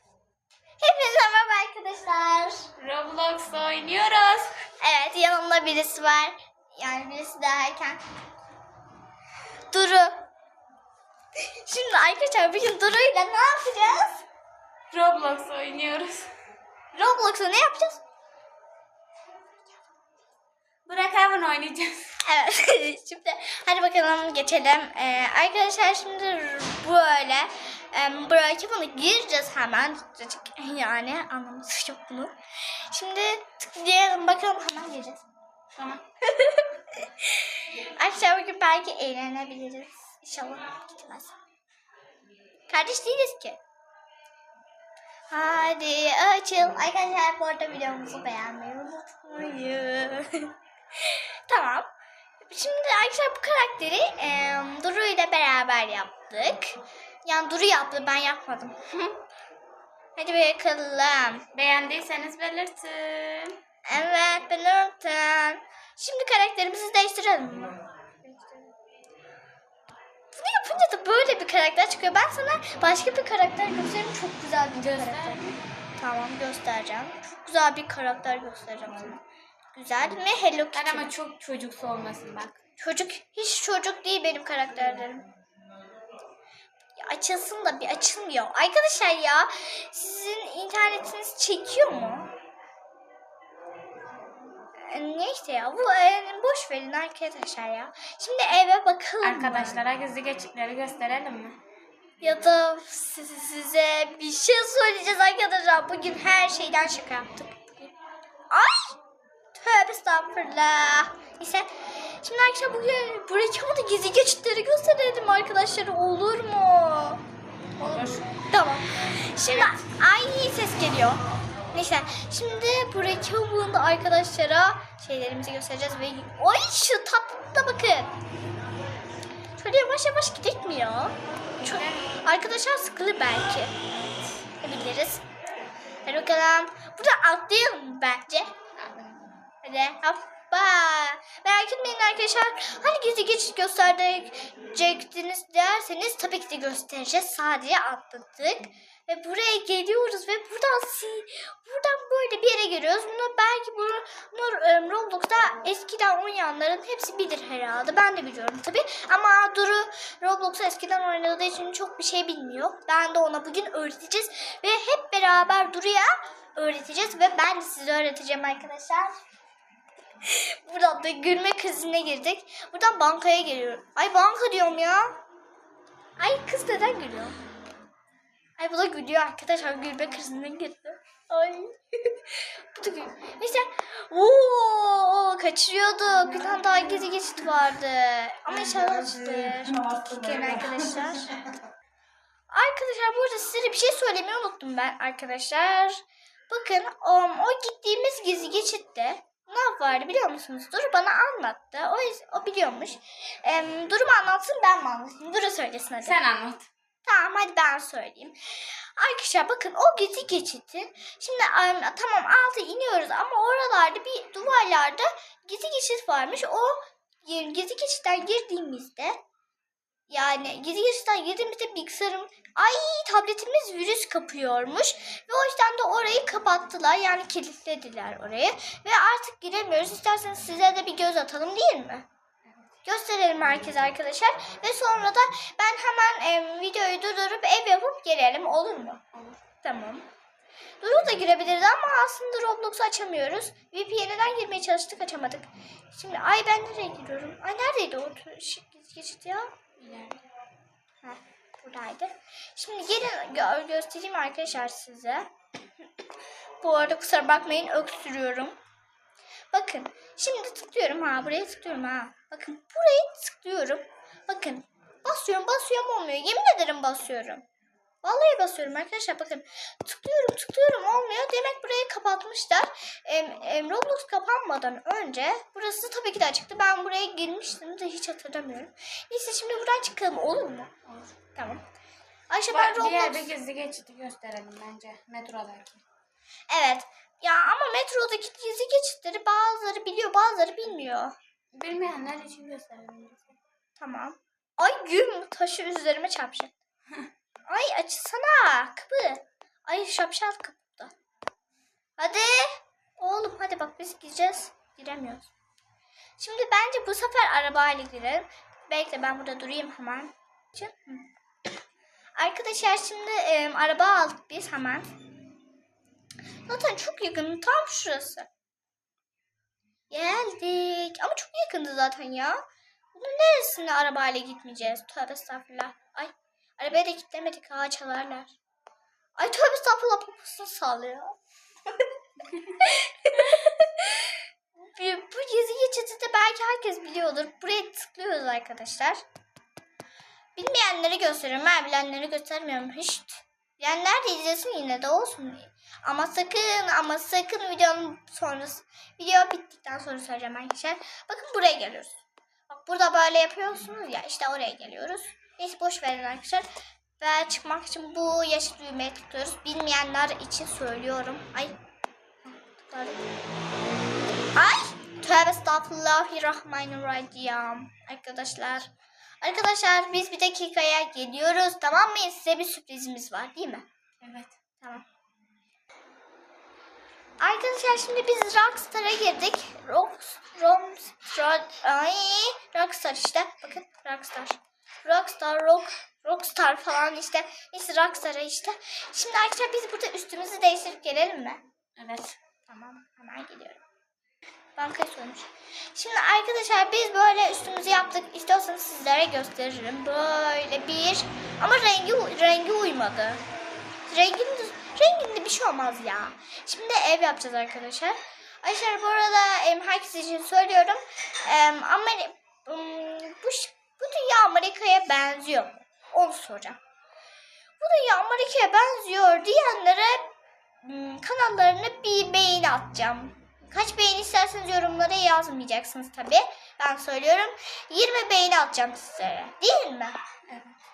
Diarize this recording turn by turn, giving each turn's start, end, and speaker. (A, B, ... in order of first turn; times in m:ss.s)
0:00.8-0:02.7 A
0:02.8-0:04.6 B
0:04.8-0:08.0 A
0:09.7-0:10.2 A
0:11.5-0:14.2 A
0:14.9-0:16.3 B
0:16.9-0:18.0 A
0:20.8-0:22.2 B
0:22.2-0:35.2 A
0:35.8-0:36.0 B
0:36.3-0:41.4 A
0:42.7-0:43.6 A
0:45.3-0:51.9 A
0:52.4-0:58.8 A
1:00.2-1:01.4 A
1:01.5-1:03.6 B
1:03.8-1:08.6 A
1:10.3-1:15.4 A
1:14.7-1:15.6 B
1:16.0-1:19.2 A
1:19.7-1:21.1 A
1:20.7-1:22.6 B
1:22.8-1:25.3 A
1:27.0-1:32.3 A
1:34.9-1:39.8 A
1:39.2-1:41.6 B
1:42.2-1:47.8 A
1:48.5-1:49.0 A
1:49.5-1:57.2 A
1:57.8-1:58.4 B
1:58.4-2:01.2 A
2:01.7-2:08.1 A
2:09.6-2:13.8 A
2:11.6-2:12.0 B
2:14.6-2:15.2 A
2:16.0-2:18.5 A
2:18.8-2:19.3 B
2:19.6-2:49.1 A
2:50.2-2:55.2 A
2:56.2-2:57.4 A
2:58.6-3:11.3 A
3:12.5-3:26.2 A
3:26.0-3:26.7 B
3:27.0-3:39.2 A
3:40.1-3:52.0 A
3:52.8-3:59.0 A
3:59.1-3:59.4 B
3:59.6-4:00.1 A
4:00.8-4:09.5 A
4:09.8-4:10.2 B
4:11.0-4:15.3 A
4:16.6-4:18.6 A
4:19.5-4:27.4 A
4:28.0-4:40.7 A
4:40.8-4:41.1 B
4:41.3-4:41.6 A
4:42.3-4:43.3 A
4:42.5-4:45.8 B
4:46.5-4:51.1 A
4:51.5-4:53.4 B
4:53.8-4:56.5 A
4:57.5-5:00.9 A
5:02.0-5:05.3 A
5:06.2-5:11.1 A
5:12.2-5:14.9 A
5:16.5-5:18.3 A
5:19.9-5:28.3 A
5:29.2-5:31.2 A
5:31.8-5:39.0 A
5:40.4-5:56.4 A
5:57.0-6:01.6 A
6:02.2-6:03.0 A
6:04.3-6:08.7 A
6:09.2-6:13.6 A
6:14.0-6:14.3 B
6:14.6-6:14.8 A
6:17.2-6:31.4 A
6:31.8-6:32.2 B
6:32.5-6:33.6 A
6:34.6-6:43.2 A
6:43.9-6:56.6 A
6:57.6-7:00.1 A
7:00.6-7:10.0 A
7:10.3-7:10.6 B